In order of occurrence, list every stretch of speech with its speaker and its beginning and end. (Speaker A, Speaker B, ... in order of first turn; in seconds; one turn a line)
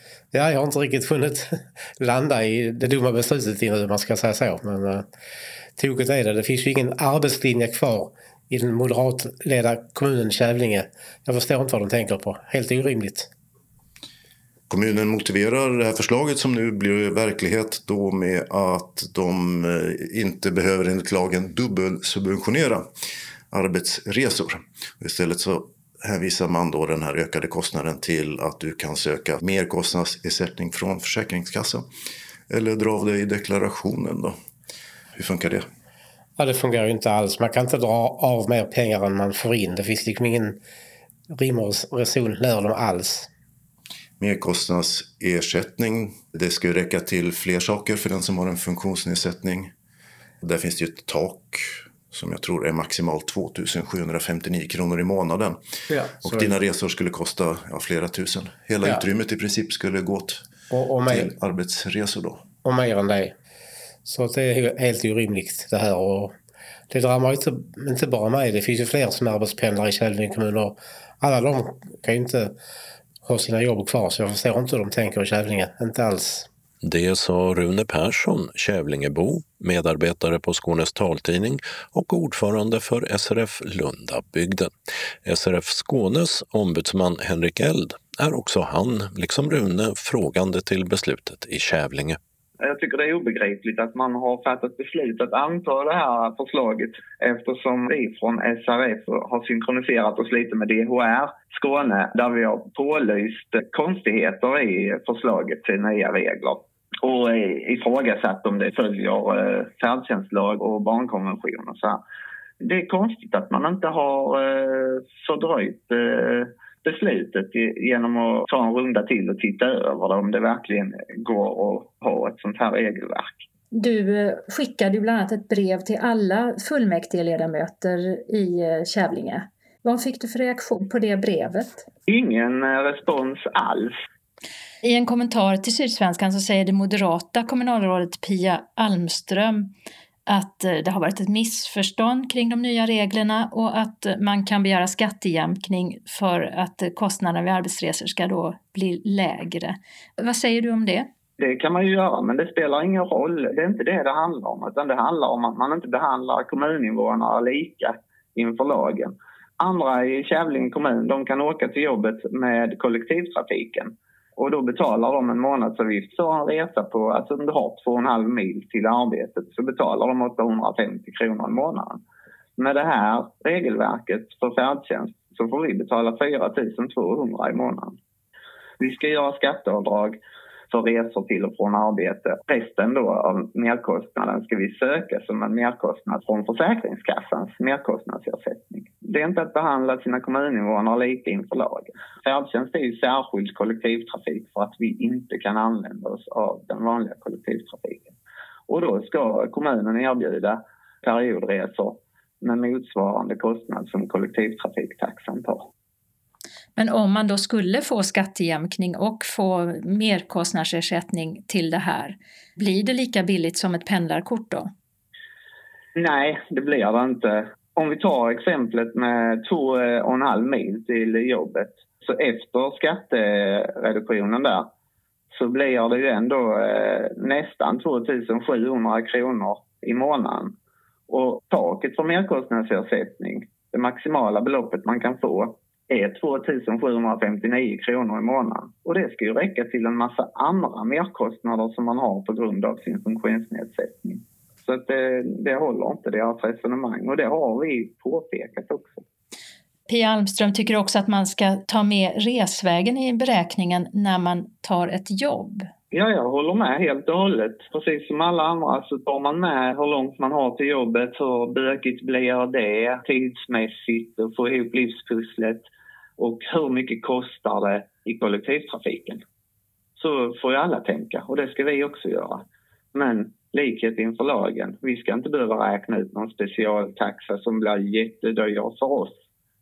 Speaker A: 0.3-5.1
Speaker A: 5.8-13.3
Speaker B: 14.7-22.9
Speaker B: 23.5-31.9
Speaker B: 32.5-34.4
Speaker B: 35.1-35.7
Speaker A: 36.4-40.6
Speaker A: 41.3-43.3
Speaker B: 44.2-49.7
Speaker B: 50.4-55.6
Speaker A: 56.0-56.5
Speaker B: 56.2-60.5
Speaker A: 60.7-61.3
Speaker B: 61.1-62.5
Speaker A: 62.6-63.4
Speaker A: 64.0-66.4
Speaker A: 66.9-72.6
Speaker A: 73.2-76.5
Speaker C: 76.8-84.7
Speaker C: 85.3-92.2
Speaker D: 92.6-112.0
Speaker D: 112.6-123.5
Speaker E: 123.7-131.8
Speaker D: 132.1-134.0
Speaker E: 134.8-139.7
Speaker E: 140.3-151.1
Speaker D: 151.4-172.0
Speaker D: 172.6-178.0
Speaker D: 178.8-180.2
Speaker D: 180.7-198.1
Speaker D: 198.7-205.7
Speaker E: 206.8-214.7
Speaker D: 216.0-224.7
Speaker D: 225.3-230.6
Speaker D: 231.1-249.0
Speaker E: 249.9-255.7
Speaker D: 255.9-265.7
Speaker D: 266.2-269.2
Speaker D: 270.0-279.2